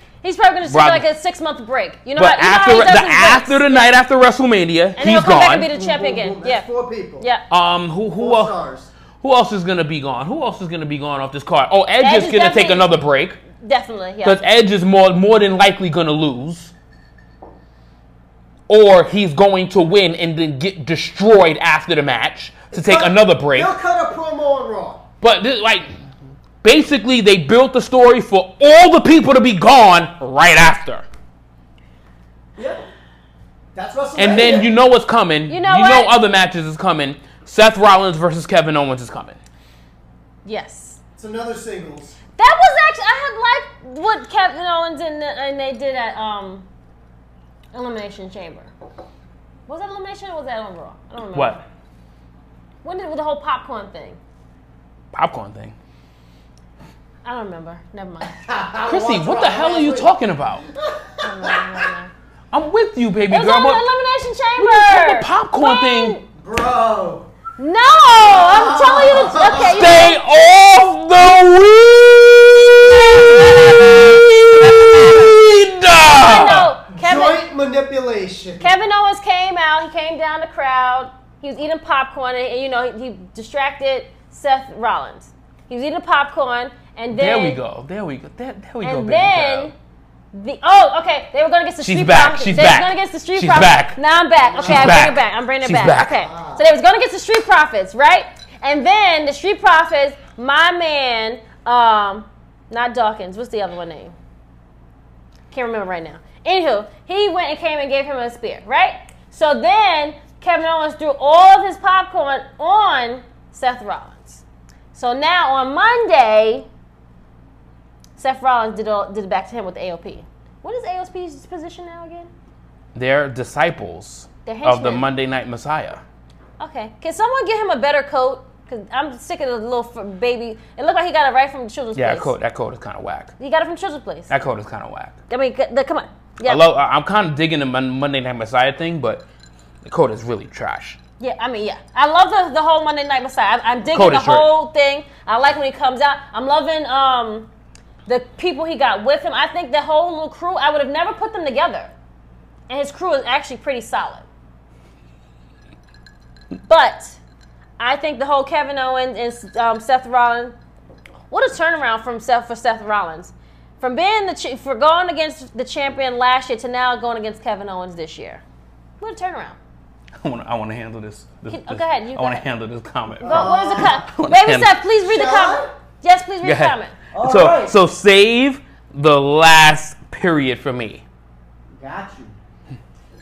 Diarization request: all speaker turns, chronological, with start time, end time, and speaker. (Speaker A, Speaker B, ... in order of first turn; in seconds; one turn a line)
Speaker A: 0.2-3.9
Speaker B: 0.6-1.1
Speaker B: 2.1-5.7
Speaker A: 5.0-6.7
Speaker C: 5.7-7.2
Speaker A: 7.2-7.4
Speaker B: 7.5-8.6
Speaker C: 8.2-8.9
Speaker B: 9.2-13.4
Speaker A: 12.0-12.9
Speaker A: 13.6-14.4
Speaker B: 14.2-16.7
Speaker B: 18.7-23.7
Speaker C: 22.7-25.0
Speaker B: 25.2-26.0
Speaker B: 26.6-31.0
Speaker C: 32.5-32.9
Speaker C: 33.7-34.7
Speaker B: 34.1-39.4
Speaker A: 35.5-36.1
Speaker A: 40.4-41.0
Speaker C: 41.2-42.2
Speaker A: 42.4-46.6
Speaker A: 47.7-48.7
Speaker A: 49.7-51.6
Speaker B: 51.3-51.6
Speaker A: 52.8-54.2
Speaker B: 55.1-55.7
Speaker A: 57.2-58.4
Speaker C: 58.4-60.1
Speaker B: 58.9-60.6
Speaker C: 60.7-61.9
Speaker A: 61.2-62.1
Speaker B: 62.5-63.8
Speaker A: 63.3-66.2
Speaker B: 64.6-66.2
Speaker C: 66.3-67.3
Speaker A: 67.6-70.2
Speaker C: 68.2-70.0
Speaker B: 69.5-76.7
Speaker A: 76.2-77.4
Speaker C: 76.9-78.7
Speaker A: 78.6-87.6
Speaker B: 87.1-89.7
Speaker A: 88.8-89.7
Speaker A: 90.3-104.1
Speaker B: 91.8-94.0
Speaker C: 94.4-95.1
Speaker B: 94.6-96.2
Speaker C: 96.0-96.7
Speaker A: 105.5-114.4
Speaker A: 114.9-116.7
Speaker A: 118.2-122.3
Speaker B: 122.9-126.0
Speaker A: 124.5-125.1
Speaker A: 126.6-132.3
Speaker B: 131.9-133.3
Speaker A: 133.4-134.3
Speaker B: 134.3-135.2
Speaker A: 135.3-136.6
Speaker B: 136.4-139.2
Speaker B: 139.8-141.0
Speaker A: 141.2-147.5
Speaker B: 143.9-144.5
Speaker A: 148.1-151.9
Speaker A: 152.7-154.2
Speaker A: 156.7-157.2
Speaker A: 157.8-160.5
Speaker A: 161.3-168.4
Speaker A: 169.0-169.6
Speaker B: 170.2-174.7
Speaker A: 171.5-172.4
Speaker C: 173.2-174.0
Speaker A: 173.2-176.9
Speaker C: 175.0-175.7
Speaker B: 176.4-181.0
Speaker C: 177.1-177.7
Speaker C: 181.7-182.3